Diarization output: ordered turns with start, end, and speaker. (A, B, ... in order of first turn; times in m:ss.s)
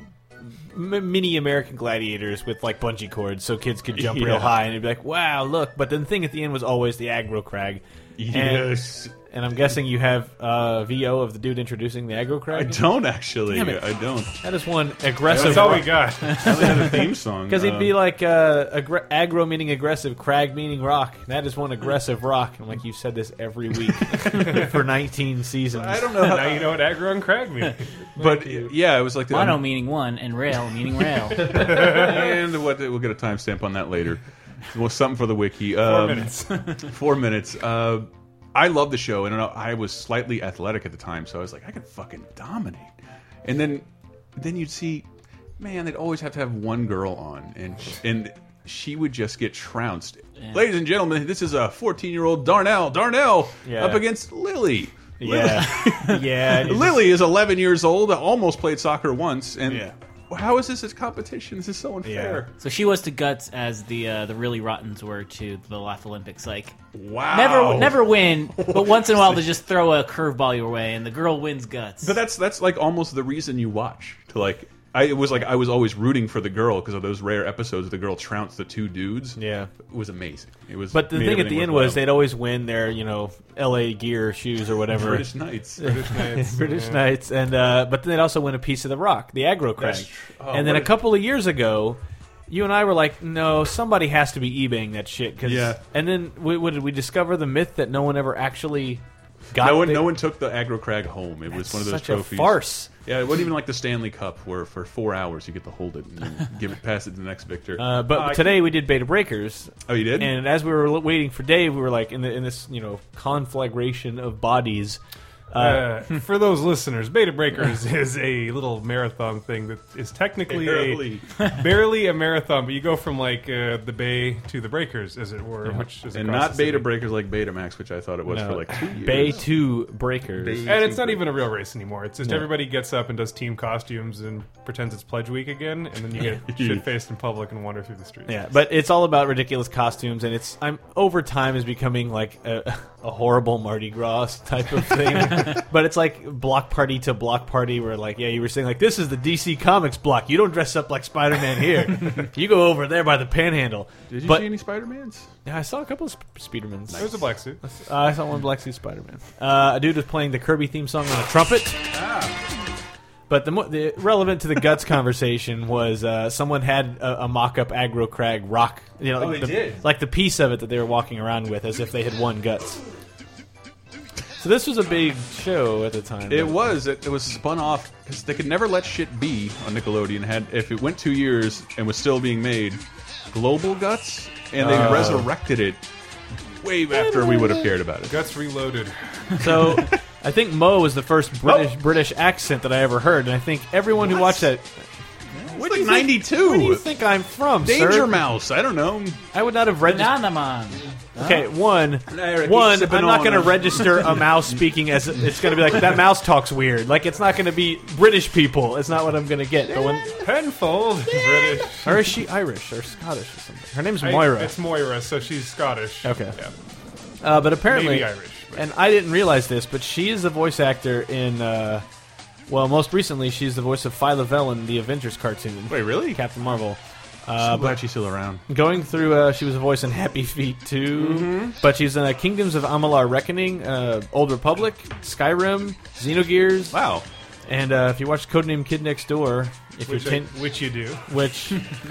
0:00.7-0:12.8 A
0:03.9-0:04.6 B
0:08.2-0:09.1 B
0:12.5-0:14.3 B
0:13.5-0:13.8 A
0:14.4-0:26.1 A
0:15.3-0:18.0 B
0:15.3-0:16.9 C
0:24.3-0:24.6 C
0:25.7-0:26.8 B
0:26.2-0:27.9 C
0:28.2-0:28.7 A
0:28.2-0:29.6 B
0:29.3-0:31.8 D
0:31.5-0:42.9 B
0:31.5-0:32.1 C
0:35.8-0:36.8 C
0:43.4-0:45.1 B
0:45.6-1:02.5 B
0:53.6-0:54.1 A
0:55.2-0:57.1 A
0:59.7-0:59.9 A
1:02.0-1:02.4 A
1:02.6-1:06.8 D
1:06.9-1:09.5 B
1:07.3-1:12.2 D
1:12.0-1:22.1 B
1:19.4-1:19.7 A
1:20.9-1:40.2 A
1:24.9-1:25.9 B
1:25.8-1:27.1 C
1:29.8-1:31.0 B
1:35.4-1:35.8 B
1:39.6-1:48.7 B
1:41.5-1:42.9 A
1:47.8-1:55.0 A
1:49.9-1:50.4 B
1:55.5-1:56.0 A
1:55.6-2:06.9 C
2:00.4-2:01.3 B
2:06.1-2:09.5 B
2:08.3-2:10.7 A
2:10.4-2:11.2 B
2:10.6-2:18.4 C
2:12.2-2:12.5 A
2:16.2-2:16.8 B
2:18.3-2:34.6 A
2:34.1-2:35.3 B
2:35.4-2:41.8 A
2:36.9-2:37.3 B
2:37.0-2:37.6 C
2:41.9-2:42.4 B
2:43.3-2:52.8 A
2:49.2-2:49.8 B
2:54.4-2:56.7 A
2:56.3-3:05.8 B
3:04.5-3:05.3 A
3:06.6-3:08.2 B
3:06.9-3:07.7 A
3:08.1-3:09.4 C
3:09.4-3:14.9 A
3:15.3-3:16.9 B
3:15.5-3:18.2 A
3:17.6-3:19.2 B
3:19.3-3:20.2 A
3:19.8-3:20.8 D
3:21.2-3:21.5 B
3:21.2-3:30.1 A
3:22.1-3:26.0 B
3:30.2-3:32.1 C
3:31.8-3:34.6 A
3:34.0-3:36.5 C
3:36.0-3:36.4 A
3:37.2-3:41.8 A
3:37.6-3:38.5 C
3:42.5-3:47.8 A
3:45.7-3:46.2 B
3:47.4-3:48.4 B
3:48.5-3:56.8 A
3:50.9-3:51.6 B
3:56.7-3:57.1 B
3:57.5-4:01.6 A
3:59.8-4:01.0 C